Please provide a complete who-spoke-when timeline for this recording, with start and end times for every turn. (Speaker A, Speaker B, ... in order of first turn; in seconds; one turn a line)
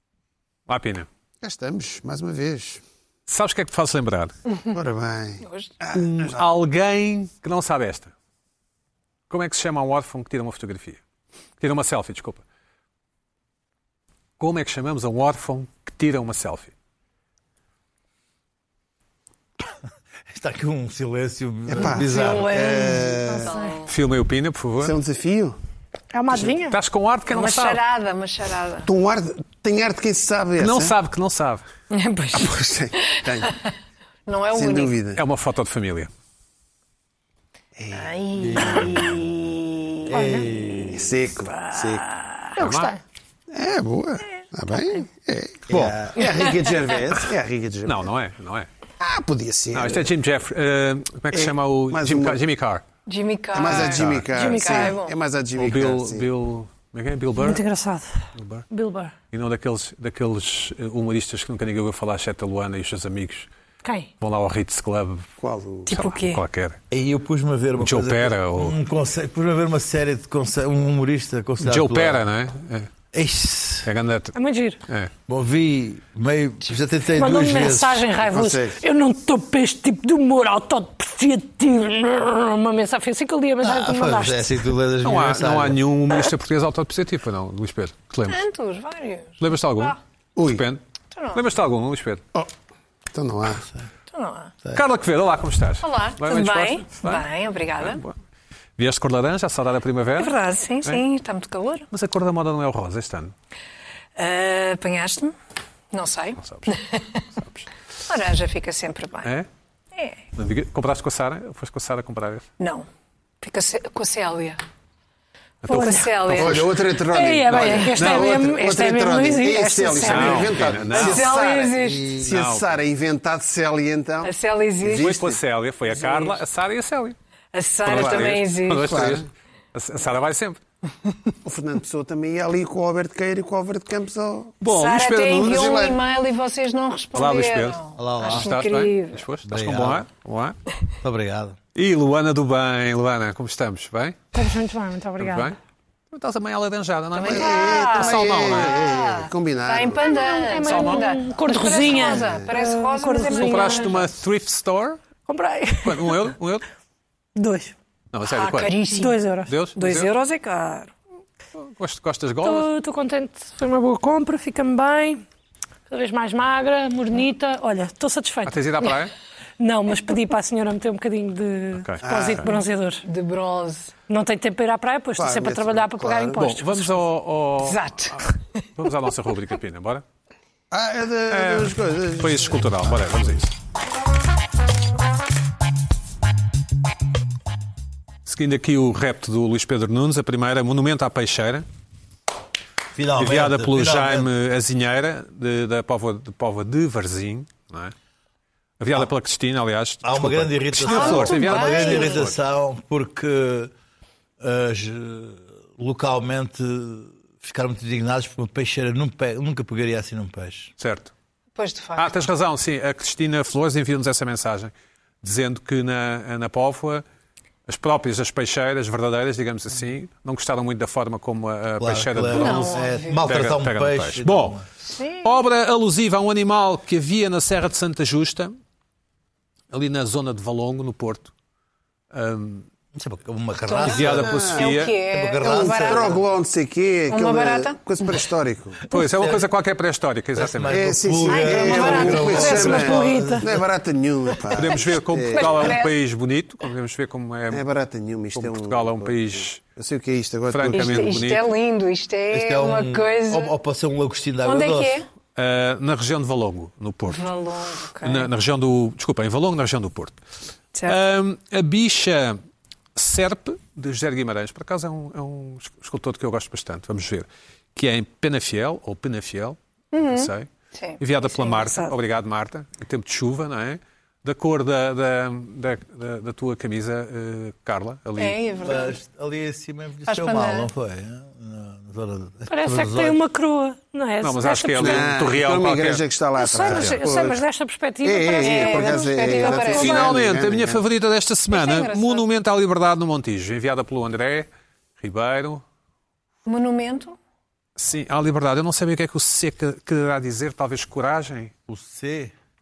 Speaker A: 0.7-1.1
Speaker B: 1.4-2.8
Speaker A: 3.3-4.3
Speaker B: 4.7-6.5
Speaker C: 5.4-5.7
Speaker A: 5.9-8.1
Speaker A: 9.3-11.0
Speaker A: 11.6-12.4
Speaker A: 14.4-16.7
Speaker D: 20.3-23.0
Speaker B: 21.7-23.5
Speaker C: 22.1-23.9
Speaker A: 23.9-24.9
Speaker B: 24.8-25.6
Speaker E: 26.1-26.8
Speaker A: 26.7-27.8
Speaker C: 27.3-28.9
Speaker B: 28.9-31.0
Speaker A: 30.6-31.6
Speaker C: 31.9-33.7
Speaker B: 32.3-33.6
Speaker C: 34.3-35.0
Speaker B: 34.5-35.2
Speaker A: 35.2-36.1
Speaker B: 37.8-38.8
Speaker C: 37.9-40.8
Speaker D: 38.4-39.0
Speaker D: 40.1-41.1
Speaker B: 40.9-42.1
Speaker C: 41.5-42.6
Speaker A: 42.6-43.0
Speaker E: 42.6-43.0
Speaker B: 43.5-48.0
Speaker A: 45.7-46.0
Speaker A: 47.9-48.7
Speaker B: 49.0-50.1
Speaker A: 49.7-52.9
Speaker B: 51.3-52.4
Speaker C: 53.1-55.2
Speaker B: 53.5-56.3
Speaker A: 53.7-54.2
Speaker E: 54.3-55.0
Speaker A: 55.6-57.6
Speaker E: 57.4-59.1
Speaker A: 58.4-58.7
Speaker A: 59.3-63.5
Speaker E: 63.8-64.1
Speaker A: 64.2-65.3
Speaker B: 65.4-66.0
Speaker C: 65.9-66.4
Speaker A: 65.9-66.8
Speaker D: 66.9-72.2
Speaker A: 67.8-68.8
Speaker A: 71.6-72.9
Speaker D: 73.1-73.9
Speaker A: 73.8-74.3
Speaker E: 74.3-74.8
Speaker D: 75.3-78.1
Speaker E: 77.1-84.7
Speaker B: 78.3-78.8
Speaker D: 83.6-85.8
Speaker A: 85.0-88.4
Speaker C: 88.3-90.0
Speaker A: 89.4-90.0
Speaker B: 90.4-90.6
Speaker A: 90.5-90.8
Speaker C: 91.1-91.4
Speaker A: 91.3-92.2
Speaker B: 93.1-93.7
Speaker C: 94.1-94.5
Speaker A: 94.7-97.3
Speaker C: 95.8-98.0
Speaker A: 97.8-98.2
Speaker A: 98.8-101.0
Speaker C: 100.2-101.9
Speaker A: 101.9-103.3
Speaker C: 104.2-105.3
Speaker C: 105.9-107.2
Speaker A: 106.4-106.8
Speaker C: 108.1-109.3
Speaker C: 110.0-110.2
Speaker A: 110.3-112.5
Speaker C: 112.6-112.9
Speaker C: 113.4-114.6
Speaker A: 115.6-116.7
Speaker C: 115.7-116.7
Speaker E: 115.7-116.1
Speaker B: 116.3-125.4
Speaker E: 117.1-120.7
Speaker A: 117.5-118.4
Speaker A: 120.1-121.2
Speaker C: 120.9-122.1
Speaker D: 121.8-122.3
Speaker A: 122.3-122.7
Speaker C: 124.2-125.1
Speaker A: 125.0-127.2
Speaker C: 126.0-126.3
Speaker C: 127.5-129.1
Speaker A: 127.8-130.6
Speaker B: 127.9-128.3
Speaker B: 128.8-129.2
Speaker B: 131.4-134.7
Speaker A: 134.6-135.8
Speaker C: 134.7-139.3
Speaker B: 135.2-136.0
Speaker A: 137.1-140.6
Speaker D: 138.0-138.5
Speaker D: 139.4-140.1
Speaker D: 141.0-141.6
Speaker A: 141.8-144.3
Speaker E: 144.3-145.5
Speaker A: 145.2-145.6
Speaker A: 146.1-148.8
Speaker C: 147.2-154.0
Speaker B: 147.2-150.1
Speaker E: 150.0-154.0
Speaker A: 150.7-151.0
Speaker B: 151.9-152.5
Speaker A: 153.4-155.0
Speaker E: 155.3-156.3
Speaker A: 155.8-156.6
Speaker E: 157.4-157.8
Speaker A: 158.1-158.8
Speaker C: 158.3-159.2
Speaker E: 158.9-159.5
Speaker A: 159.5-160.1
Speaker C: 159.8-160.9
Speaker A: 161.6-162.7
Speaker E: 162.4-165.2
Speaker E: 165.9-168.6
Speaker A: 168.5-169.1
Speaker E: 169.6-173.0
Speaker A: 171.7-172.5
Speaker B: 172.0-172.5
Speaker C: 173.0-173.9
Speaker E: 174.1-176.7
Speaker B: 175.2-176.6
Speaker A: 176.4-178.2
Speaker C: 177.6-178.3
Speaker A: 178.8-180.1
Speaker B: 180.7-183.4
Speaker A: 181.3-183.5
Speaker A: 188.3-191.7
Speaker D: 192.9-194.3
Speaker A: 193.2-197.9
Speaker A: 198.8-202.3
Speaker D: 200.0-203.7
Speaker C: 200.8-202.2
Speaker D: 204.4-210.7
Speaker A: 210.8-211.1
Speaker C: 211.6-212.1
Speaker A: 212.0-217.0
Speaker A: 217.7-224.6
Speaker D: 221.8-224.7
Speaker C: 222.3-223.4
Speaker C: 224.8-225.4
Speaker A: 225.2-228.6
Speaker A: 229.7-231.3
Speaker A: 232.1-232.7
Speaker D: 232.9-234.3
Speaker C: 233.7-236.2
Speaker A: 233.9-234.9
Speaker B: 234.1-234.7
Speaker D: 235.1-236.2
Speaker B: 235.4-238.8
Speaker C: 237.1-237.8
Speaker A: 238.9-240.9
Speaker D: 238.9-239.4
Speaker D: 240.4-243.7
Speaker B: 240.7-245.8
Speaker C: 241.3-242.9
Speaker A: 241.7-242.2
Speaker E: 242.4-243.5
Speaker A: 244.6-247.6
Speaker C: 245.3-245.9
Speaker B: 247.5-251.2
Speaker A: 248.3-249.6
Speaker A: 250.5-251.4
Speaker C: 250.7-253.5
Speaker D: 252.3-255.0
Speaker C: 254.4-255.1
Speaker A: 255.4-257.3
Speaker C: 257.1-258.3
Speaker A: 258.0-260.2
Speaker A: 260.9-262.4
Speaker A: 262.9-278.4
Speaker C: 269.9-272.0
Speaker C: 278.2-279.0
Speaker D: 278.6-283.2
Speaker C: 280.1-280.7
Speaker E: 282.5-285.1
Speaker A: 284.2-286.0
Speaker B: 284.8-287.4
Speaker E: 286.4-289.1
Speaker B: 288.0-290.8
Speaker C: 288.4-290.2
Speaker A: 289.4-295.6
Speaker C: 291.5-292.2
Speaker C: 296.4-297.2
Speaker A: 297.8-301.5
Speaker D: 301.7-302.3